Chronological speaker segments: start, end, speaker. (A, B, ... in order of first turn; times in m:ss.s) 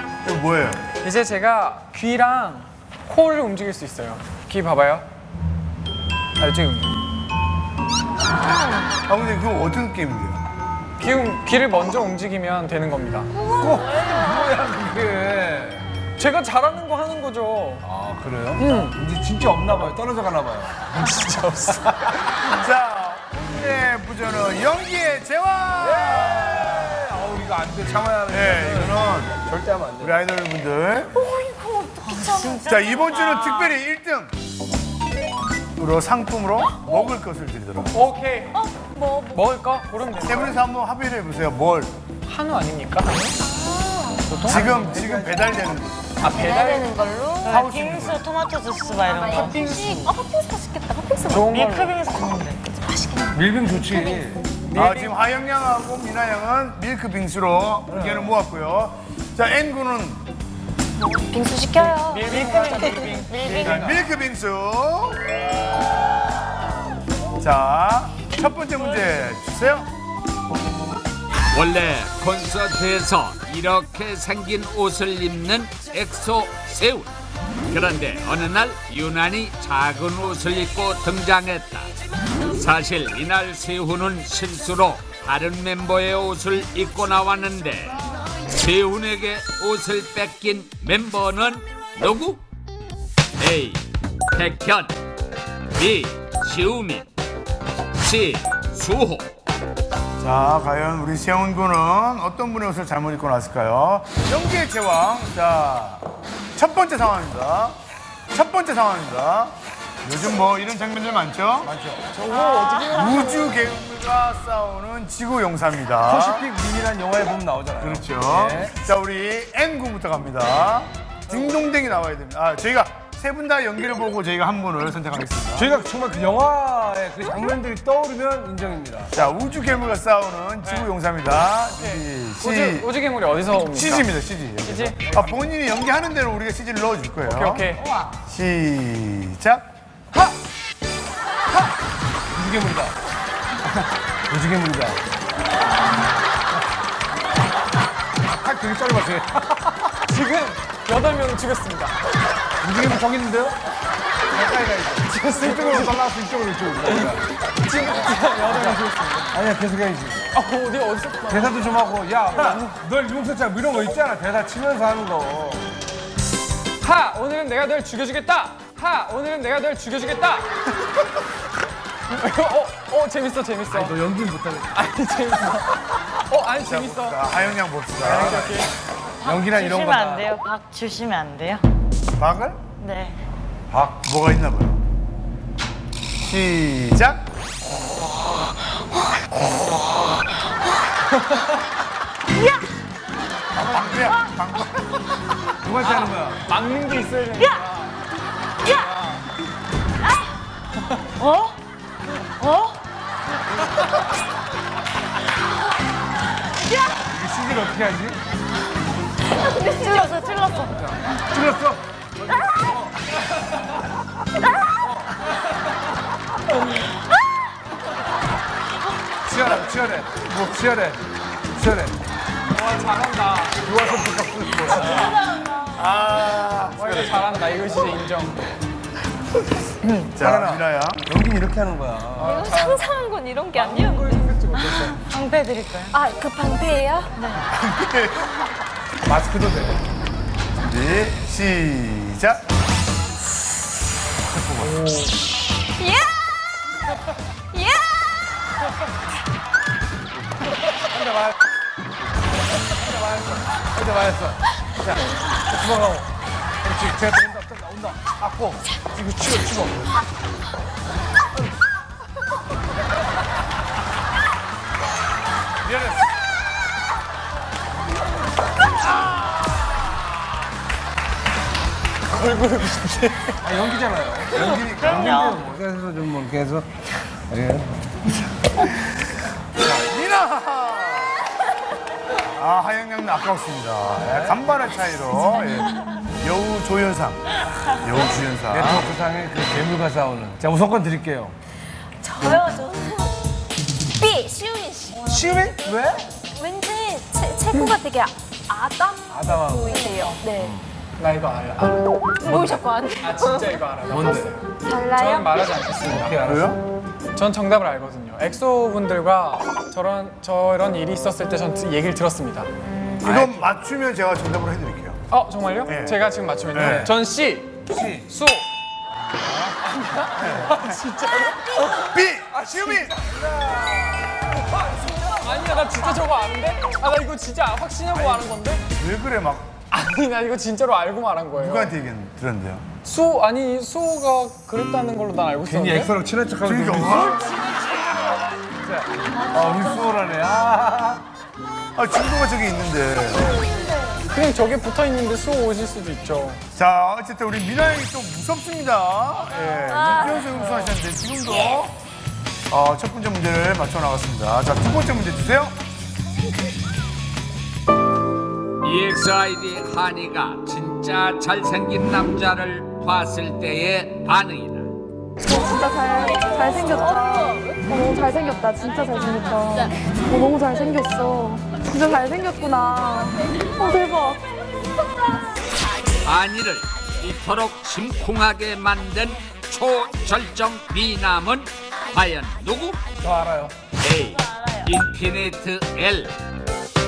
0:00.2-0:00.8 A
0:01.0-0:05.0 B
0:06.4-0:07.0 B
0:09.0-0:10.4 A
0:11.0-0:13.3 B
0:13.5-0:15.9 C
0:16.2-0:17.8 B
0:17.8-0:20.9 C
0:18.6-0:19.0 B
0:20.9-0:22.3 B
0:22.4-0:27.0 A
0:25.8-0:30.1 C
0:28.3-0:29.4 A
0:30.0-0:31.1 A
0:31.1-0:32.6 D
0:32.0-0:33.7 E
0:32.7-0:34.3 A
0:35.8-0:38.0 A
0:37.9-0:38.6 B
0:38.5-0:39.4 D
0:39.3-0:40.6 B
0:40.2-0:41.9 A
0:42.2-0:43.4 B
0:43.5-0:44.3 D
0:44.2-0:44.9 B
0:44.5-0:46.1 A
0:44.5-0:45.5 C
0:46.2-0:46.9 B
0:46.3-0:47.5 D
0:47.4-0:49.7 E
0:47.5-0:48.2 A
0:49.1-0:51.4 D
0:49.3-0:50.1 B
0:51.3-0:51.9 B
0:51.3-0:52.8 E
0:52.8-0:53.4 D
0:53.3-0:54.4 C
0:53.9-0:54.2 D
0:54.6-0:55.1 B
0:54.7-1:00.2 A
0:57.9-0:58.4 C
1:01.3-1:04.1 E
1:01.3-1:01.8 D
1:01.8-1:03.6 B
1:02.8-1:03.1 D
1:03.4-1:04.0 C
1:03.6-1:05.2 A
1:07.4-1:09.9 A
1:11.5-1:17.1 F
1:17.7-1:21.9 F
1:22.5-1:28.0 F
1:28.5-1:32.4 F
1:33.4-1:34.9 F
1:35.8-1:37.0 F
1:38.0-1:39.3 F
1:40.2-1:46.0 A
1:46.5-1:47.8 A
1:48.3-1:51.7 A
1:51.6-1:52.4 C
1:52.1-1:53.5 B
1:52.8-1:56.5 A
1:56.0-1:58.7 C
1:57.8-2:05.7 A
2:05.6-2:09.1 C
2:09.1-2:12.9 A
2:10.6-2:10.9 B
2:11.7-2:14.1 B
2:13.7-2:17.6 A
2:14.6-2:15.4 B
2:17.2-2:17.8 B
2:17.8-2:18.2 E
2:18.2-2:19.6 A
2:22.3-2:22.9 C
2:24.3-2:25.0 C
2:28.2-2:29.9 C
2:30.0-2:32.0 B
2:32.6-2:33.6 C
2:34.3-2:37.2 C
2:35.0-2:36.0 B
2:36.9-2:39.3 B
2:38.4-2:40.2 C
2:40.3-2:41.8 B
2:41.3-2:45.7 C
2:42.3-2:42.7 B
2:46.8-2:50.6 B
2:52.1-2:54.0 B
2:53.7-2:54.8 C
2:54.7-2:57.4 B
2:56.6-2:58.6 A
2:58.0-2:58.7 B
2:59.2-3:00.3 C
2:59.2-3:01.6 E
3:02.2-3:02.6 A
3:02.8-3:03.2 E
3:03.7-3:04.0 C
3:04.0-3:04.8 A
3:06.2-3:07.2 A
3:13.5-3:15.0 A
3:13.6-3:13.9 C
3:15.6-3:16.4 C
3:15.8-3:18.0 B
3:18.7-3:19.2 B
3:20.0-3:20.3 E
3:21.2-3:21.6 E
3:22.2-3:22.8 E
3:26.6-3:27.0 E
3:27.0-3:28.2 C
3:29.3-3:31.0 E
3:31.2-3:32.9 C
3:34.6-3:35.0 C
3:39.2-3:42.0 C
3:42.5-3:43.6 B
3:43.6-3:45.2 C
3:44.9-3:45.4 E
3:45.7-3:47.4 A
3:46.8-3:48.4 B
3:50.1-3:51.0 A
3:50.2-3:52.8 C
3:52.2-3:54.3 D
3:52.2-3:52.8 B
3:53.5-3:55.0 B
3:54.5-3:56.0 E
3:55.9-3:57.2 D
3:57.1-3:57.4 E
3:57.5-3:58.4 A
3:59.0-3:59.8 C
4:00.6-4:02.4 A
4:04.2-4:04.8 C
4:04.6-4:05.1 B
4:05.8-4:06.3 D
4:07.5-4:08.2 D
4:10.8-4:11.3 C
4:13.5-4:16.1 C
4:16.6-4:19.9 C
4:32.1-4:33.4 B
4:33.4-4:36.7 C
4:34.3-4:35.1 A
4:34.3-4:35.4 E
4:37.3-4:37.9 C
4:39.6-4:41.2 A
4:42.3-4:47.3 A
4:44.0-4:44.4 C
4:47.8-4:48.9 A
4:48.5-4:51.3 C
4:52.0-4:53.1 D
4:54.0-4:55.6 D
4:55.0-4:56.1 C
4:56.3-5:00.5 D
4:59.1-4:59.8 C
5:00.3-5:00.6 C
5:01.0-5:06.2 B
5:02.2-5:03.5 D
5:02.3-5:02.6 C
5:03.9-5:04.4 C
5:04.6-5:05.4 D
5:05.8-5:06.6 C
5:06.2-5:06.6 A
5:07.1-5:12.5 B
5:13.0-5:15.0 A
5:13.0-5:13.5 C
5:15.1-5:18.4 B
5:15.6-5:16.0 A
5:16.5-5:16.9 A
5:16.6-5:16.9 C
5:17.7-5:18.0 C
5:19.1-5:19.5 A
5:19.6-5:21.8 B
5:20.2-5:20.8 A
5:21.7-5:23.0 A
5:22.3-5:24.2 C
5:24.9-5:28.6 B
5:27.9-5:29.5 A
5:29.7-5:31.7 B
5:31.4-5:32.6 A
5:32.8-5:35.9 B
5:35.4-5:41.0 C
5:36.4-5:37.4 A
5:39.3-5:39.6 E
5:41.8-5:43.4 A
5:44.0-5:46.4 B
5:46.5-5:51.7 A
5:49.4-5:49.8 B
5:49.7-5:50.3 D
5:52.5-5:55.5 A
5:58.6-6:04.7 F
6:05.2-6:14.2 G
6:06.3-6:07.6 D
6:09.2-6:09.6 D
6:16.0-6:22.8 F
6:23.0-6:23.5 C
6:23.8-6:26.1 F
6:24.2-6:24.7 E